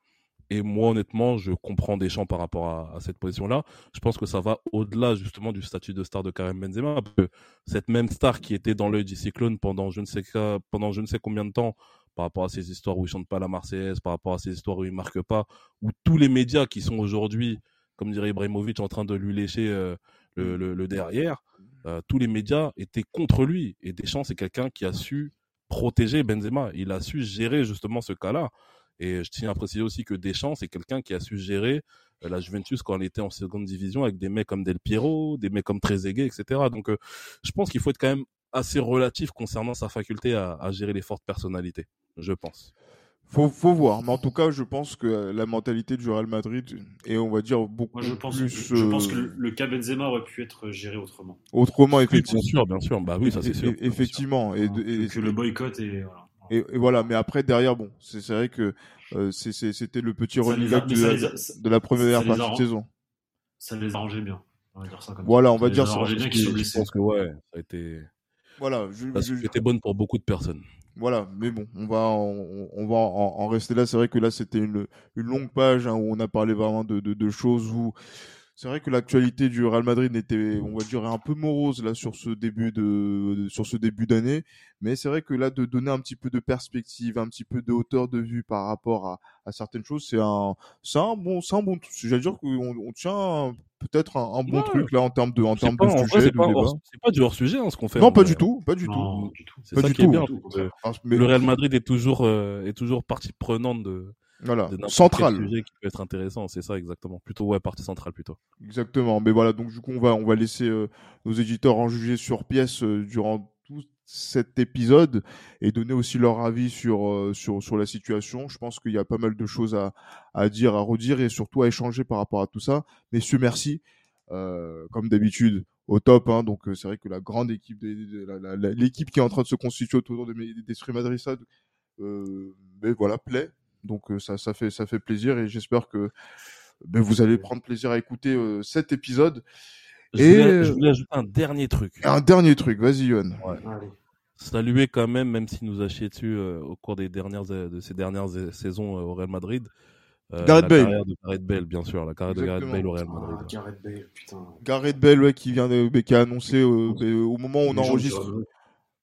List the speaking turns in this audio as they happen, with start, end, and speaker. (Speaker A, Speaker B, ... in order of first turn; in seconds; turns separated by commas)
Speaker A: 0.5-42.7, Speaker B: 43.3-49.4, Speaker C: 47.9-51.4, Speaker B: 51.5-52.5, Speaker A: 52.1-54.2, Speaker B: 53.2-55.4, Speaker C: 54.6-56.5, Speaker B: 56.5-62.9, Speaker C: 60.4-62.7, Speaker C: 63.6-66.9, Speaker B: 65.2-66.1, Speaker A: 65.8-68.1, Speaker B: 68.6-69.5, Speaker A: 69.1-70.6, Speaker B: 71.0-78.0, Speaker B: 78.6-96.8, Speaker A: 94.5-94.9, Speaker A: 95.6-98.5, Speaker B: 98.0-99.1, Speaker C: 98.8-100.7, Speaker A: 99.1-104.2, Speaker B: 99.7-101.3, Speaker B: 104.4-105.5, Speaker A: 104.7-108.4, Speaker B: 108.6-131.4, Speaker B: 132.0-136.1, Speaker B: 136.8-139.4, Speaker A: 140.1-142.0, Speaker B: 140.2-140.8, Speaker B: 142.0-143.4, Speaker C: 143.6-143.9, Speaker A: 144.4-149.7, Speaker A: 150.3-153.5, Speaker B: 150.4-151.0, Speaker B: 152.3-152.9, Speaker C: 153.1-154.6, Speaker B: 154.6-158.3, Speaker C: 157.7-158.5